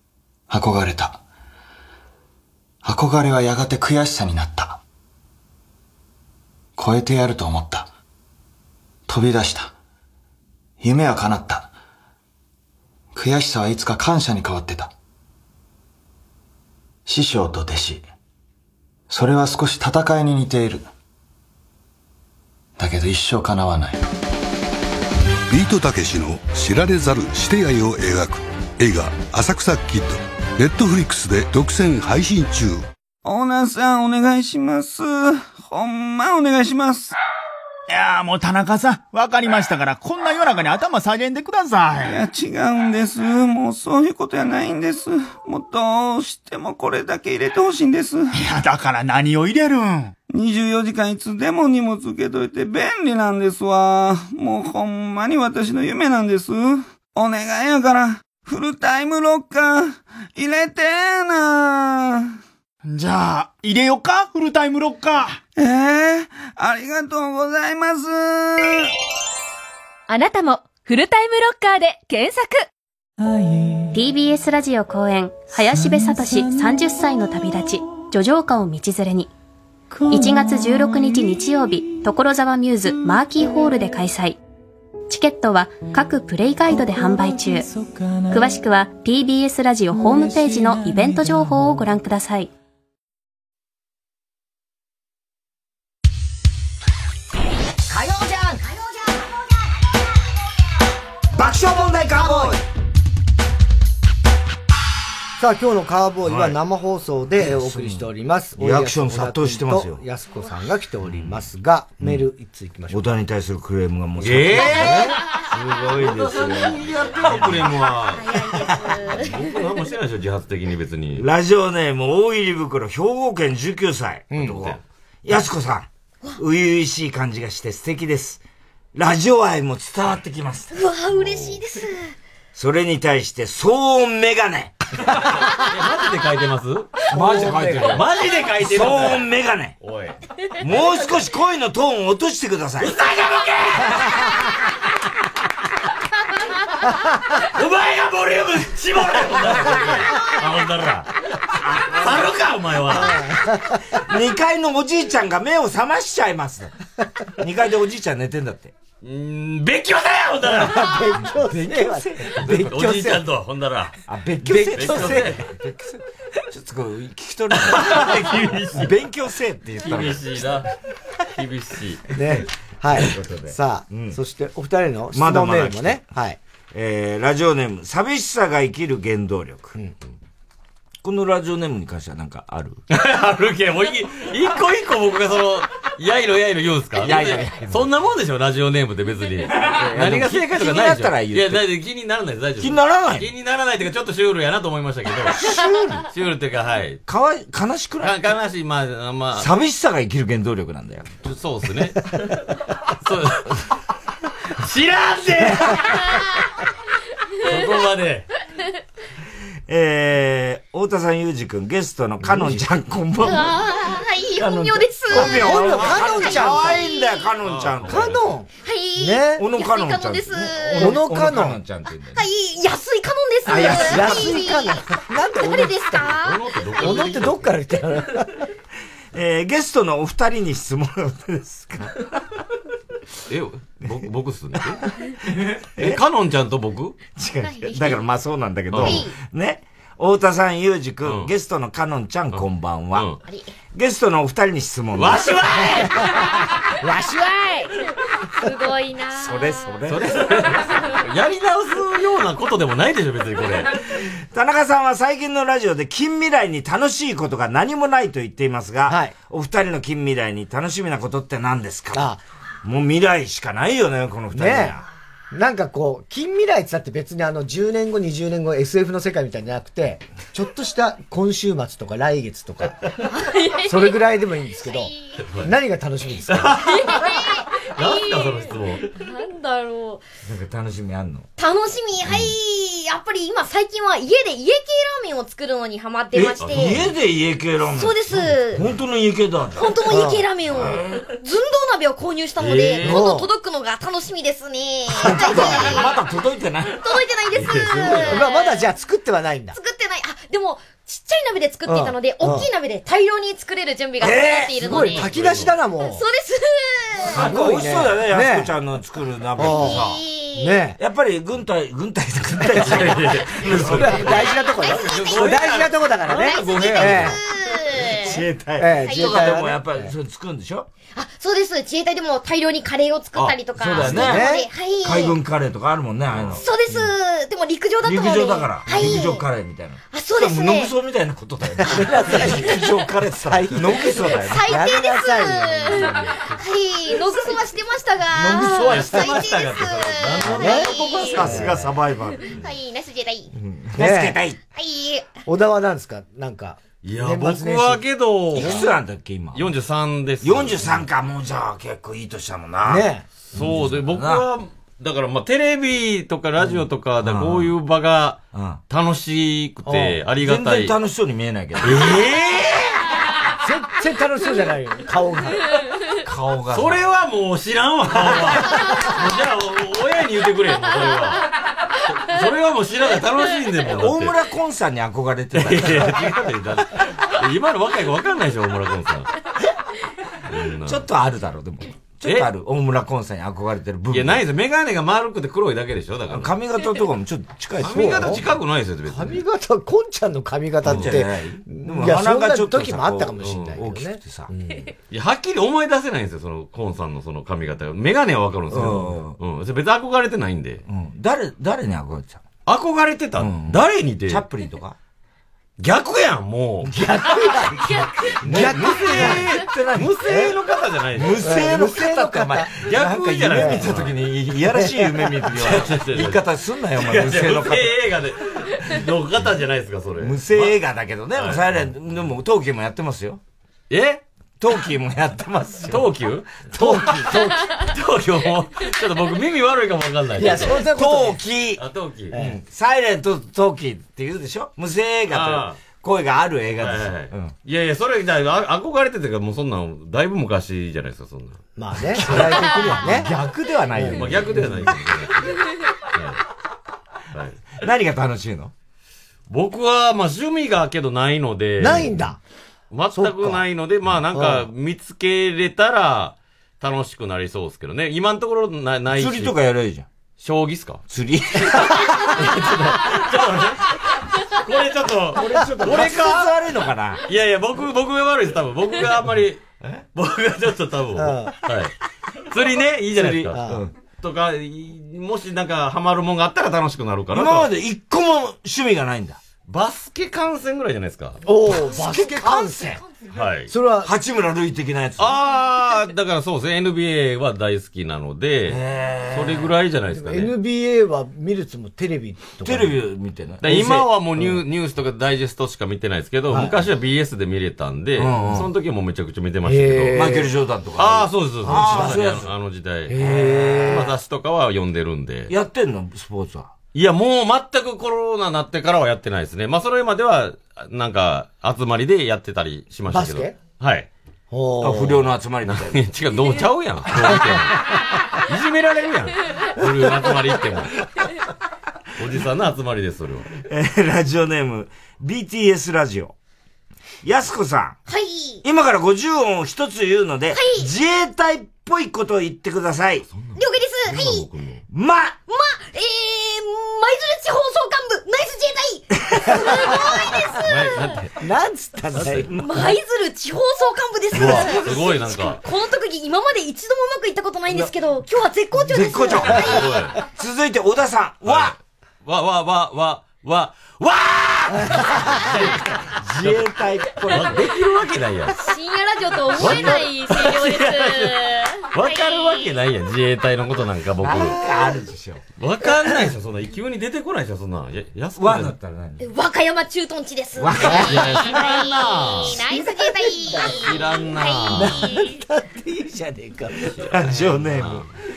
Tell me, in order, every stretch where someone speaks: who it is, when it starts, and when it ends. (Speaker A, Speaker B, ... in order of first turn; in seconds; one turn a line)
Speaker A: 0.5-1.2
Speaker A: 2.8-4.8
Speaker A: 6.8-7.9
Speaker A: 9.1-9.7
Speaker A: 10.8-11.7
Speaker A: 13.1-14.9
Speaker A: 17.1-18.1
Speaker A: 19.1-20.9
Speaker A: 22.8-24.0
Speaker B: 25.5-32.9
Speaker C: 33.2-37.1
Speaker D: 37.9-42.1
Speaker C: 42.0-48.4
Speaker D: 48.4-50.1
Speaker C: 50.3-62.4
Speaker D: 62.8-65.4
Speaker C: 65.5-68.9
Speaker E: 70.1-72.6
Speaker F: 73.9-79.3
Speaker F: 80.1-84.4
Speaker F: 85.1-87.7
Speaker F: 88.3-92.5
Speaker G: 97.9-99.7
Speaker H: 101.3-102.6
Speaker G: 102.0-102.6
Speaker I: 105.4-113.2
Speaker H: 106.2-106.6
Speaker H: 107.4-110.0
Speaker H: 111.0-111.4
Speaker H: 112.0-112.3
Speaker H: 112.9-117.9
Speaker J: 114.2-114.9
Speaker I: 114.5-115.2
Speaker J: 116.0-118.3
Speaker K: 117.8-119.5
Speaker J: 119.2-121.2
Speaker H: 121.2-128.4
Speaker I: 124.3-124.6
Speaker J: 124.3-124.8
Speaker H: 128.9-130.7
Speaker K: 130.7-132.1
Speaker J: 131.1-131.6
Speaker H: 132.5-134.7
Speaker J: 135.1-136.9
Speaker I: 137.1-138.0
Speaker H: 137.1-139.8
Speaker J: 137.8-139.3
Speaker J: 139.8-140.2
Speaker H: 140.6-143.0
Speaker J: 142.8-143.9
Speaker J: 147.5-151.1
Speaker H: 151.6-152.3
Speaker J: 151.8-153.2
Speaker I: 152.9-153.8
Speaker H: 154.1-156.7
Speaker H: 157.4-158.7
Speaker J: 159.0-161.0
Speaker I: 160.4-163.2
Speaker H: 161.3-163.0
Speaker J: 162.5-163.9
Speaker H: 164.1-170.3
Speaker I: 164.4-165.3
Speaker J: 164.6-165.4
Speaker J: 167.5-168.9
Speaker J: 169.8-170.7
Speaker J: 171.3-172.0
Speaker I: 172.1-176.4
Speaker H: 172.9-174.2
Speaker H: 175.1-176.1
Speaker H: 176.7-179.8
Speaker H: 181.0-182.8
Speaker J: 182.9-195.4
Speaker H: 186.9-187.8
Speaker H: 189.6-191.6
Speaker H: 192.6-193.3
Speaker H: 195.4-196.0
Speaker J: 196.1-197.0
Speaker H: 197.1-198.2
Speaker J: 198.0-199.5
Speaker H: 199.3-201.2
Speaker J: 201.2-202.3
Speaker J: 203.0-203.6
Speaker J: 204.6-206.0
Speaker J: 207.4-208.3
Speaker H: 209.7-213.6
Speaker I: 212.2-212.6
Speaker K: 213.2-217.3
Speaker H: 214.3-218.2
Speaker I: 215.1-216.9
Speaker J: 217.4-218.2
Speaker I: 217.8-219.5
Speaker K: 218.6-220.9
Speaker H: 219.3-222.2
Speaker I: 220.7-221.6
Speaker K: 222.1-226.4
Speaker I: 223.4-226.2
Speaker H: 223.5-224.3
Speaker J: 226.2-227.5
Speaker I: 226.8-228.4
Speaker H: 229.1-232.0
Speaker J: 233.3-234.8
Speaker J: 235.8-237.0
Speaker H: 237.1-243.1
Speaker K: 237.4-238.0
Speaker J: 238.7-239.0
Speaker K: 238.7-239.1
Speaker J: 241.0-241.3
Speaker J: 242.3-243.2
Speaker K: 243.2-243.5
Speaker H: 243.7-245.6
Speaker J: 244.9-246.1
Speaker K: 246.2-249.8
Speaker I: 246.8-247.2
Speaker H: 249.1-250.5
Speaker J: 249.9-253.7
Speaker K: 250.5-251.0
Speaker H: 254.0-264.9
Speaker I: 258.9-259.1
Speaker I: 261.9-262.2
Speaker I: 264.3-264.8
Speaker I: 265.3-272.8
Speaker K: 273.1-274.0
Speaker I: 273.6-276.6
Speaker K: 274.6-275.2
Speaker J: 275.2-275.5
Speaker J: 276.3-277.0
Speaker K: 276.6-280.0
Speaker J: 277.7-278.9
Speaker H: 280.2-281.3
Speaker K: 281.4-286.8
Speaker H: 286.1-289.8
Speaker J: 286.4-286.8
Speaker K: 287.7-288.7
Speaker K: 289.5-295.9
Speaker I: 289.9-290.3
Speaker H: 290.4-290.9
Speaker J: 292.4-293.1
Speaker I: 292.8-293.3
Speaker I: 295.0-295.8
Speaker H: 295.1-296.8
Speaker K: 296.7-298.7
Speaker J: 297.3-298.3
Speaker I: 298.0-299.6
Speaker K: 299.5-305.1
Speaker I: 301.6-302.5
Speaker H: 304.0-305.0
Speaker I: 304.6-306.0
Speaker J: 305.0-305.5
Speaker K: 305.8-307.3
Speaker H: 307.0-310.0
Speaker I: 307.0-308.5
Speaker I: 309.4-310.8
Speaker K: 309.5-310.6
Speaker H: 310.8-314.2
Speaker I: 312.4-317.2
Speaker J: 312.5-317.2
Speaker K: 314.1-315.4
Speaker K: 316.1-318.2
Speaker H: 317.9-320.7
Speaker I: 318.6-319.9
Speaker K: 318.8-319.3
Speaker K: 320.9-325.2
Speaker J: 323.1-324.0
Speaker H: 323.2-324.3
Speaker I: 323.8-324.5
Speaker H: 324.8-326.4
Speaker K: 326.3-329.2
Speaker H: 327.8-334.6
Speaker I: 328.7-329.0
Speaker K: 329.9-330.7
Speaker I: 331.6-332.6
Speaker K: 332.5-332.8
Speaker I: 333.2-336.3
Speaker K: 333.8-341.3
Speaker H: 338.1-338.7
Speaker I: 338.2-339.2
Speaker J: 338.6-341.5
Speaker I: 340.2-341.8
Speaker H: 340.3-342.4
Speaker K: 342.2-343.3
Speaker H: 343.3-344.4
Speaker I: 343.8-344.2
Speaker K: 344.5-345.1
Speaker I: 345.2-348.7
Speaker J: 346.8-348.7
Speaker H: 348.3-349.5
Speaker J: 349.3-350.8
Speaker H: 350.2-354.2
Speaker I: 352.6-353.0
Speaker J: 353.3-360.7
Speaker H: 356.4-357.5
Speaker H: 358.3-358.6
Speaker I: 359.6-360.0
Speaker H: 360.1-362.0
Speaker J: 361.6-362.6
Speaker I: 363.4-365.4
Speaker H: 366.0-366.8
Speaker J: 366.5-371.2
Speaker I: 368.2-368.7
Speaker J: 371.9-374.1
Speaker H: 373.8-376.0
Speaker J: 375.3-379.1
Speaker J: 380.3-380.8
Speaker H: 380.6-384.2
Speaker J: 383.9-386.3
Speaker H: 386.1-388.2
Speaker I: 387.6-388.2
Speaker J: 387.6-389.2
Speaker I: 388.9-394.7
Speaker H: 390.6-394.3
Speaker J: 390.7-390.9
Speaker J: 393.2-393.5
Speaker J: 394.9-400.6
Speaker H: 398.5-399.2
Speaker H: 400.6-402.2
Speaker J: 402.4-404.2
Speaker H: 403.2-404.8
Speaker J: 405.6-406.8
Speaker I: 406.6-409.3
Speaker H: 408.2-410.3
Speaker J: 408.3-411.3
Speaker I: 410.0-410.3
Speaker H: 410.9-417.8
Speaker I: 411.2-412.6
Speaker J: 412.6-413.9
Speaker I: 413.3-413.8
Speaker I: 414.5-415.2
Speaker J: 415.3-416.2
Speaker J: 416.8-420.5
Speaker H: 420.0-423.2
Speaker J: 421.1-421.6
Speaker J: 423.7-424.0
Speaker H: 424.4-425.9
Speaker J: 425.7-430.7
Speaker H: 426.5-427.1
Speaker I: 426.5-427.5
Speaker I: 430.2-431.2
Speaker H: 430.3-431.6
Speaker J: 431.6-432.2
Speaker I: 432.1-432.4
Speaker H: 432.1-437.3
Speaker J: 435.1-435.6
Speaker J: 436.6-441.4
Speaker I: 441.6-443.1
Speaker J: 441.9-442.6
Speaker H: 442.1-444.7
Speaker I: 443.7-444.6
Speaker J: 443.8-445.4
Speaker J: 445.9-446.2
Speaker J: 447.1-447.4
Speaker H: 447.6-448.5
Speaker J: 449.3-452.1
Speaker I: 451.6-452.2
Speaker J: 452.7-459.3
Speaker I: 452.9-453.4
Speaker I: 454.1-454.4
Speaker H: 458.9-459.9
Speaker J: 460.2-460.8
Speaker H: 460.9-462.2
Speaker I: 461.5-462.0
Speaker J: 462.1-463.6
Speaker J: 464.3-466.3
Speaker H: 465.1-467.0
Speaker J: 467.1-471.7
Speaker I: 471.0-471.3
Speaker J: 472.3-477.5
Speaker H: 472.9-473.7
Speaker I: 473.3-473.6
Speaker H: 477.1-479.2
Speaker J: 479.4-481.2
Speaker I: 481.2-482.8
Speaker K: 481.7-483.2
Speaker H: 481.8-482.6
Speaker J: 483.1-483.5
Speaker I: 483.5-483.9
Speaker H: 483.8-485.2
Speaker J: 485.0-488.6
Speaker H: 488.5-489.5
Speaker J: 489.1-490.3
Speaker I: 489.9-492.8
Speaker H: 492.4-493.9
Speaker J: 493.4-500.1
Speaker H: 496.3-496.6
Speaker H: 498.0-498.5
Speaker I: 499.4-500.3
Speaker H: 499.9-502.3
Speaker J: 500.8-503.0
Speaker I: 501.4-502.0
Speaker I: 502.9-504.0
Speaker H: 502.9-504.0
Speaker J: 503.6-505.3
Speaker H: 505.3-506.5
Speaker J: 506.7-513.9
Speaker I: 512.9-513.4
Speaker I: 514.3-515.1
Speaker H: 514.6-515.8
Speaker J: 515.5-517.6
Speaker J: 518.3-520.7
Speaker J: 522.0-523.3
Speaker H: 523.4-526.1
Speaker H: 527.0-527.8
Speaker K: 527.9-528.4
Speaker H: 528.4-533.0
Speaker K: 530.3-530.7
Speaker J: 533.1-534.6
Speaker K: 533.3-534.3
Speaker H: 534.7-535.2
Speaker K: 535.3-541.0
Speaker I: 539.2-539.8
Speaker J: 540.4-541.1
Speaker I: 541.2-542.3
Speaker H: 542.0-542.6
Speaker J: 542.0-542.2
Speaker K: 542.3-549.9
Speaker J: 544.1-545.4
Speaker H: 548.6-551.5
Speaker J: 549.5-549.9
Speaker J: 551.2-555.6
Speaker I: 554.7-555.1
Speaker H: 555.9-557.5
Speaker J: 557.0-558.4
Speaker K: 558.3-562.5
Speaker J: 559.3-564.4
Speaker H: 559.4-559.8
Speaker H: 564.0-565.2
Speaker J: 565.4-568.5
Speaker H: 568.2-569.0
Speaker K: 569.0-575.1
Speaker H: 570.4-571.1
Speaker I: 570.6-571.0
Speaker J: 570.8-572.4
Speaker I: 572.5-573.6
Speaker J: 573.5-574.8
Speaker I: 574.5-576.7
Speaker J: 576.6-577.9
Speaker H: 576.8-577.9